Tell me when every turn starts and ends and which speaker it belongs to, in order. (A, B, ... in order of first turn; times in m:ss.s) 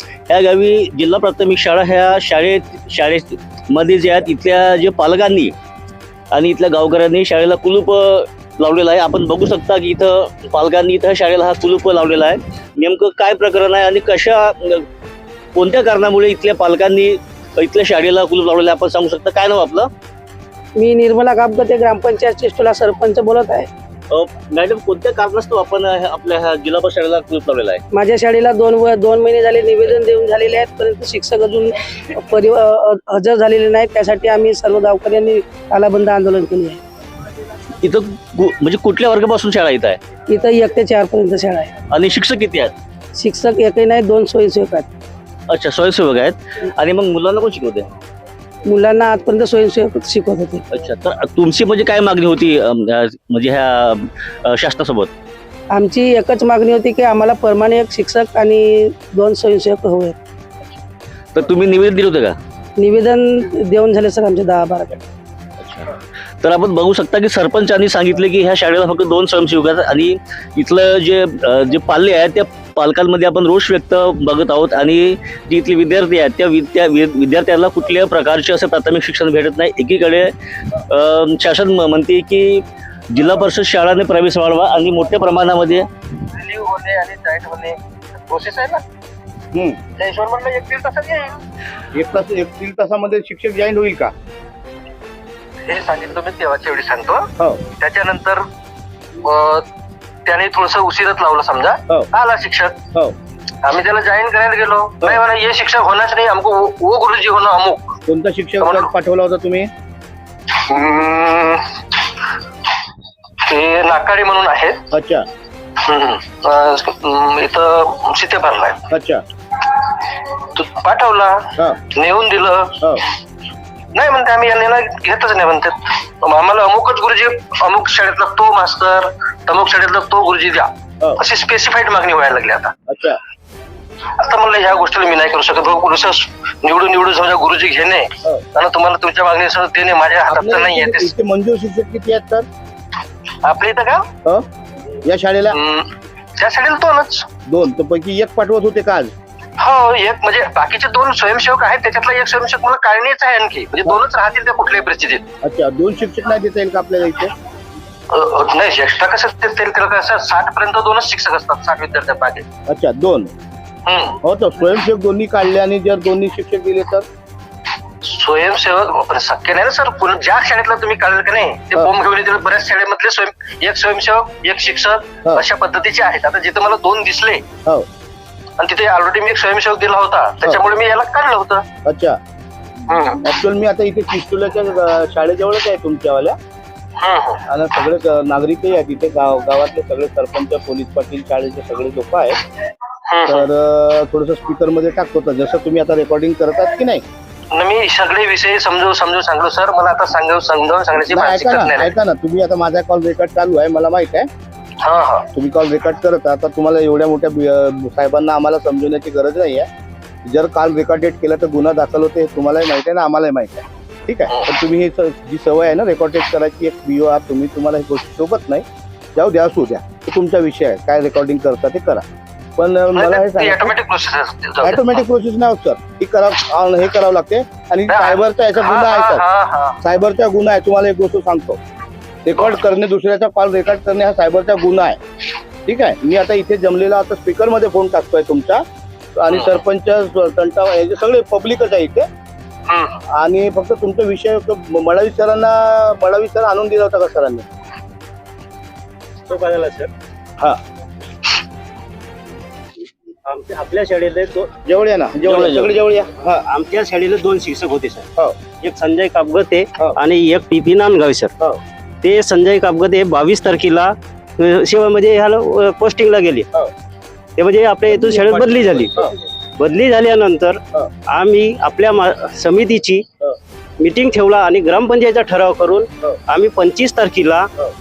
0:00.3-0:05.5 A
0:06.3-0:14.8 A
0:15.6-0:19.9 A
0:20.8-0:23.7 B
0:24.1-0:27.8 A
0:27.9-0:36.8 B
0:37.8-0:40.0 A
0:40.3-0:41.7 B
0:41.9-0:42.7 A
0:43.2-0:44.9 B
0:45.5-0:47.9 A
0:48.6-0:50.6 B
0:50.7-0:55.1 A
0:55.7-1:00.2 B
1:01.3-1:02.4 A
1:02.8-1:05.0 B
1:06.4-1:25.9 A
1:26.3-1:28.8 C
1:29.5-1:29.8 D
1:30.0-1:31.4 C
1:31.9-1:34.1 D
1:35.7-1:38.4 C
1:39.2-1:39.6 C
1:40.3-1:42.8 C
1:43.6-1:48.0 C
1:48.1-1:49.7 D
1:48.6-1:48.9 C
1:50.6-1:52.1 C
1:53.4-1:54.8 C
1:54.9-1:55.3 D
1:55.8-1:58.9 C
1:58.9-1:59.2 D
1:59.6-2:03.0 C
2:03.9-2:12.7 C
2:12.9-2:13.2 D
2:14.2-2:21.1 C
2:20.3-2:22.5 D
2:23.4-2:24.1 C
2:25.0-2:25.6 D
2:25.5-2:27.3 C
2:27.5-2:29.1 D
2:29.6-2:35.2 C
2:35.4-2:37.3 D
2:38.1-2:42.4 C
2:42.7-2:43.3 D
2:43.9-2:44.2 C
2:44.2-2:47.0 D
2:48.0-2:57.4 C
2:58.6-3:01.6 C
3:01.9-3:02.2 D
3:02.9-3:03.2 C
3:03.2-3:06.4 D
3:07.0-3:07.4 C
3:07.5-3:12.4 D
3:13.1-3:13.5 C
3:13.3-3:17.0 D
3:17.5-3:21.9 C
3:21.0-3:24.3 D
3:24.8-3:25.3 C
3:25.3-3:29.7 D
3:30.2-3:42.0 D
3:42.6-3:43.7 D
3:42.9-3:45.0 C
3:44.6-3:49.2 D
3:47.9-3:49.8 C
3:49.8-3:51.6 D
3:52.2-3:55.0 D
3:55.7-3:58.6 D
3:59.2-4:02.1 D
3:59.3-3:59.6 C
4:02.7-4:03.0 C
4:03.1-4:07.5 D
4:09.3-4:09.9 E
4:13.2-4:14.5 E
4:14.6-4:16.4 D
4:15.2-4:15.8 A
4:16.5-4:18.1 E
4:18.6-4:21.3 E
4:22.0-4:26.5 E
4:27.4-4:29.0 E
4:28.0-4:29.1 D
4:29.6-4:33.1 E
4:33.8-4:37.5 E